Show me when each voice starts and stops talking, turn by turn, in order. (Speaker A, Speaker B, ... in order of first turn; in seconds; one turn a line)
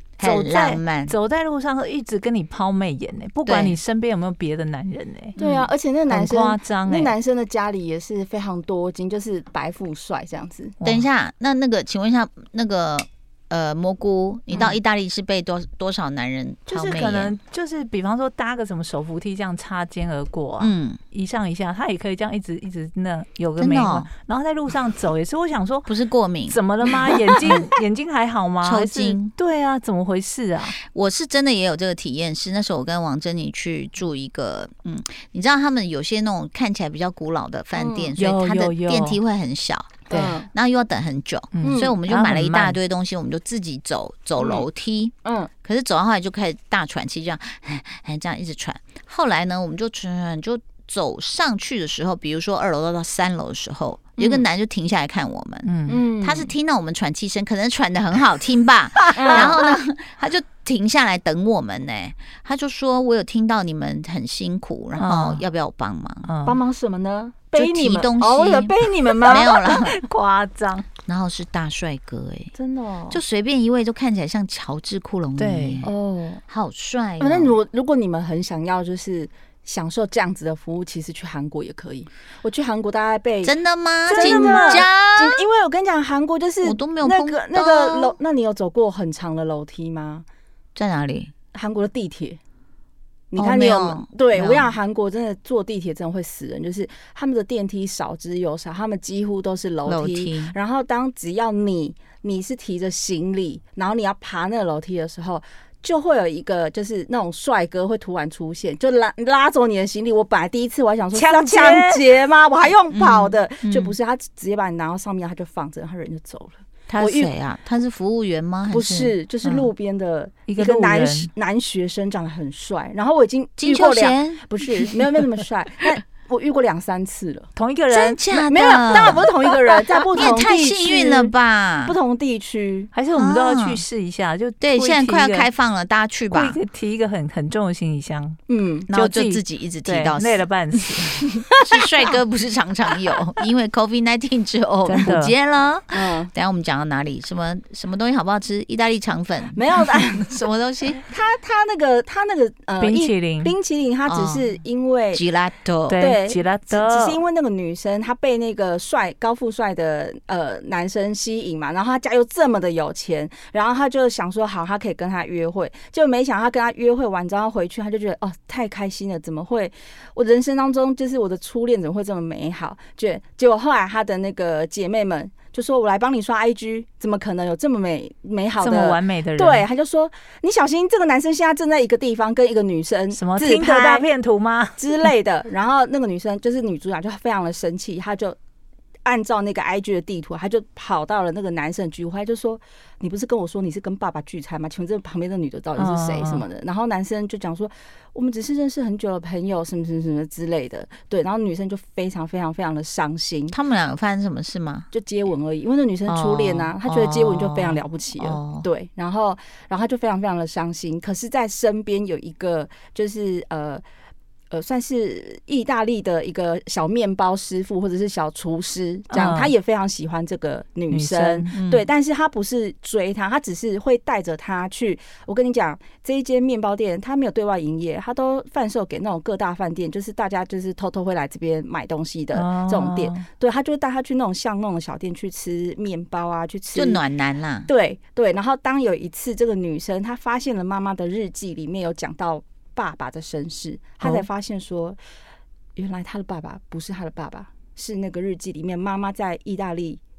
Speaker A: 0.2-1.1
Speaker B: 0.2-5.4
Speaker A: 3.5-3.8
Speaker C: 5.4-10.8
Speaker B: 6.1-7.1
Speaker B: 10.8-11.1
Speaker A: 10.8-17.3
Speaker B: 16.7-25.9
Speaker A: 20.6-21.0
Speaker A: 23.6-24.1
Speaker A: 25.9-26.6
Speaker B: 26.5-30.8
Speaker A: 27.4-27.7
Speaker A: 28.6-29.3
Speaker A: 30.9-66.3
Speaker C: 37.7-38.1
Speaker B: 38.2-39.2
Speaker C: 40.1-40.5
Speaker B: 40.1-40.4
Speaker B: 41.5-42.8
Speaker C: 41.6-42.0
Speaker C: 44.4-44.7
Speaker C: 45.2-45.5
Speaker C: 54.2-54.5
Speaker B: 55.6-56.0
Speaker C: 55.9-56.5
Speaker C: 59.0-59.8
Speaker B: 65.0-65.4
Speaker B: 66.2-66.6
Speaker C: 66.4-69.9
Speaker A: 67.5-69.9
Speaker B: 69.3-70.9
Speaker A: 71.1-72.5
Speaker C: 72.5-73.2
Speaker A: 73.1-75.9
Speaker B: 75.4-75.8
Speaker C: 75.8-76.4
Speaker A: 76.5-77.6
Speaker C: 77.2-83.5
Speaker A: 83.4-85.4
Speaker B: 84.1-84.9
Speaker C: 84.1-90.2
Speaker A: 86.6-88.2
Speaker A: 90.8-91.3
Speaker C: 91.5-92.4
Speaker C: 93.3-117.3
Speaker A: 93.4-94.8
Speaker A: 99.8-100.6
Speaker B: 111.1-112.1
Speaker A: 112.9-113.9
Speaker A: 116.9-119.1
Speaker C: 118.7-127.5
Speaker B: 120.5-121.3
Speaker A: 123.6-124.4
Speaker B: 127.5-128.2
Speaker A: 128.0-129.3
Speaker C: 128.3-132.9
Speaker A: 130.1-131.9
Speaker B: 132.9-135.5
Speaker A: 133.2-133.8
Speaker A: 134.6-136.6
Speaker B: 136.3-138.4
Speaker C: 138.5-138.9
Speaker A: 138.9-140.4
Speaker B: 138.9-141.2
Speaker A: 141.6-149.6
Speaker B: 144.8-145.3
Speaker C: 145.9-146.3
Speaker C: 149.6-150.4
Speaker A: 150.2-151.1
Speaker C: 151.1-155.2
Speaker B: 152.8-153.5
Speaker A: 154.1-154.5
Speaker A: 155.1-156.0
Speaker B: 155.9-157.2
Speaker C: 156.0-184.1
Speaker B: 178.6-179.7
Speaker B: 183.1-184.8
Speaker C: 184.8-188.4
Speaker C: 189.1-203.6
Speaker B: 195.8-196.4
Speaker A: 203.5-204.9
Speaker C: 204.9-213.8
Speaker A: 206.1-208.7
Speaker C: 214.5-237.0
Speaker B: 219.1-219.5
Speaker B: 220.9-221.6
Speaker A: 221.5-221.8
Speaker B: 232.3-233.2
Speaker A: 236.8-237.7
Speaker C: 237.7-245.0
Speaker C: 245.8-250.0